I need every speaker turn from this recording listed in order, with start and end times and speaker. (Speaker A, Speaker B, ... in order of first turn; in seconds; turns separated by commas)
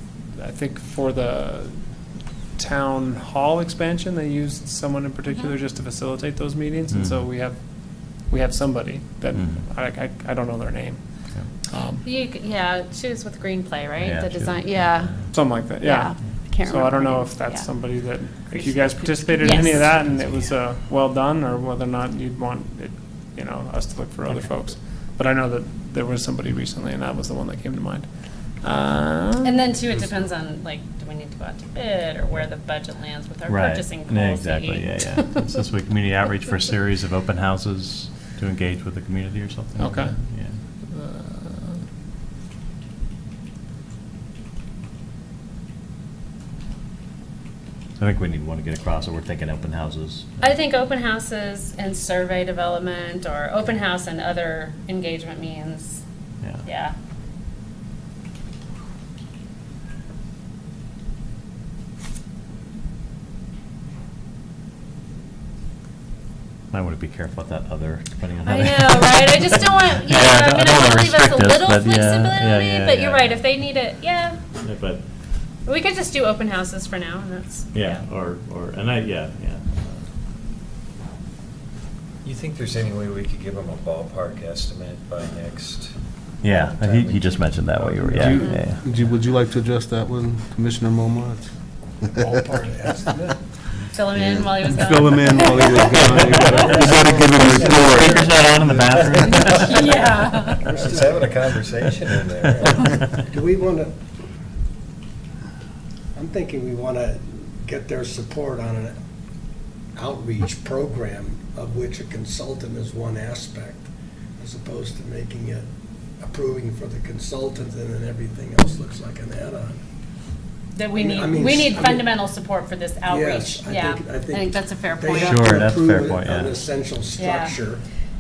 Speaker A: 0.3-1.9, Speaker A: 2.6-12.0, Speaker B: 5.3-5.5, Speaker C: 6.9-7.2, Speaker C: 9.3-9.7, Speaker B: 12.0-15.3, Speaker C: 14.0-15.3, Speaker A: 15.3-29.7, Speaker B: 15.8-17.7, Speaker B: 18.4-19.8, Speaker C: 20.0-20.5, Speaker B: 29.4-35.5, Speaker C: 33.5-40.5, Speaker A: 39.8-40.1, Speaker A: 40.9-41.8, Speaker C: 48.0-50.5, Speaker B: 50.4-56.0, Speaker B: 56.6-56.9, Speaker C: 66.7-73.4, Speaker B: 68.4-74.4, Speaker C: 74.6-75.0, Speaker B: 75.7-78.0, Speaker C: 77.7-80.0, Speaker D: 82.2-86.0, Speaker C: 86.4-88.8, Speaker D: 86.6-88.3, Speaker E: 88.0-88.5, Speaker F: 88.0-91.5, Speaker E: 92.2-93.4, Speaker B: 93.9-96.5, Speaker F: 94.2-98.5, Speaker E: 95.7-96.8, Speaker C: 96.0-100.0, Speaker E: 99.4-101.3, Speaker B: 99.4-100.7, Speaker D: 100.6-103.0, Speaker E: 103.1-103.9, Speaker E: 106.1-108.9, Speaker E: 110.0-113.8, Speaker E: 114.4-115.7, Speaker E: 116.2-119.8, Speaker B: 120.8-125.5, Speaker E: 120.9-122.2, Speaker E: 123.0-127.8, Speaker C: 125.1-126.6, Speaker B: 127.2-127.6